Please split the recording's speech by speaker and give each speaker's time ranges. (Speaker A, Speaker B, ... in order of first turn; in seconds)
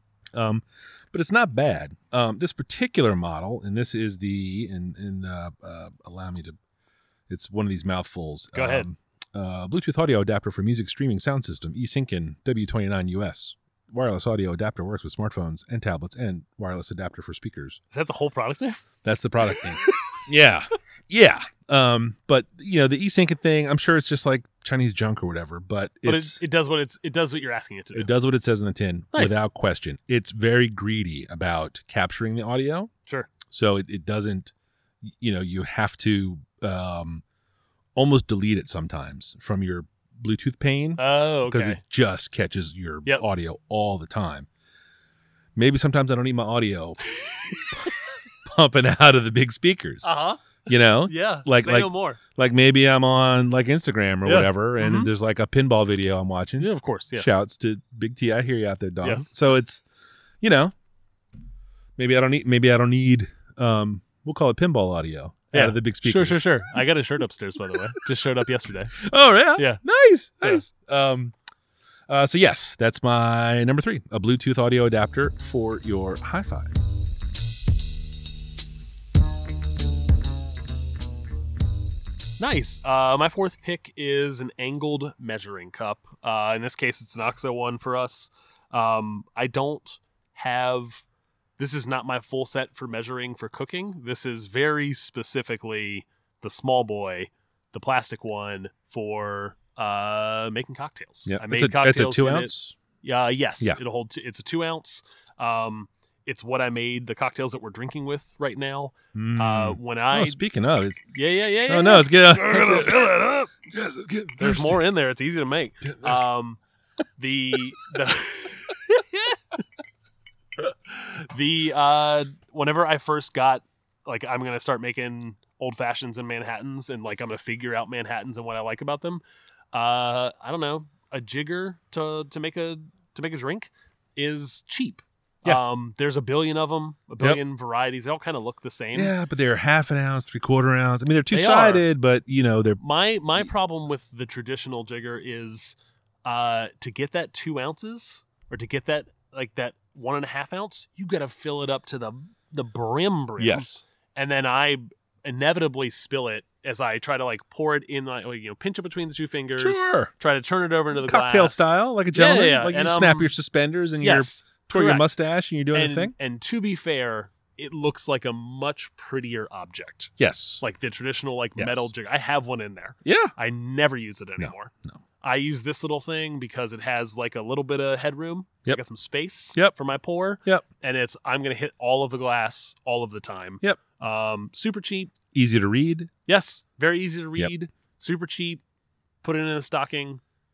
Speaker A: 0.3-6.6, 7.3-17.8, 19.0-26.4, 27.9-32.9, 33.5-34.5, 35.0-37.2, 37.9-44.5, 45.5-47.0, 48.4-50.1, 50.6-59.8, 60.4-60.7, 62.0-66.5, 69.0-71.3, 72.1-76.7, 101.2-102.8, 109.1-111.0, 111.7-113.1, 113.7-114.8, 115.8-116.2, 138.9-142.8, 153.4-153.8, 159.6-160.1, 161.0-166.1, 170.2-170.6, 171.6-171.9, 173.0-173.3, 174.4-175.0, 185.3-186.1
Speaker B: 8.5-8.9, 17.9-18.9, 19.5-19.9, 26.0-28.1, 29.1-29.4, 41.0-41.8, 47.1-47.9, 50.0-52.2, 54.2-55.1, 56.6-57.3, 59.0-59.3, 65.5-69.0, 69.5-69.8, 82.4-91.0, 91.6-110.4, 111.1-113.5, 114.4-116.6, 117.2-119.4, 120.9-139.1, 141.3-141.8, 142.8-163.3, 164.0-165.1, 165.7-185.1, 186.3-188.6, 189.2-190.2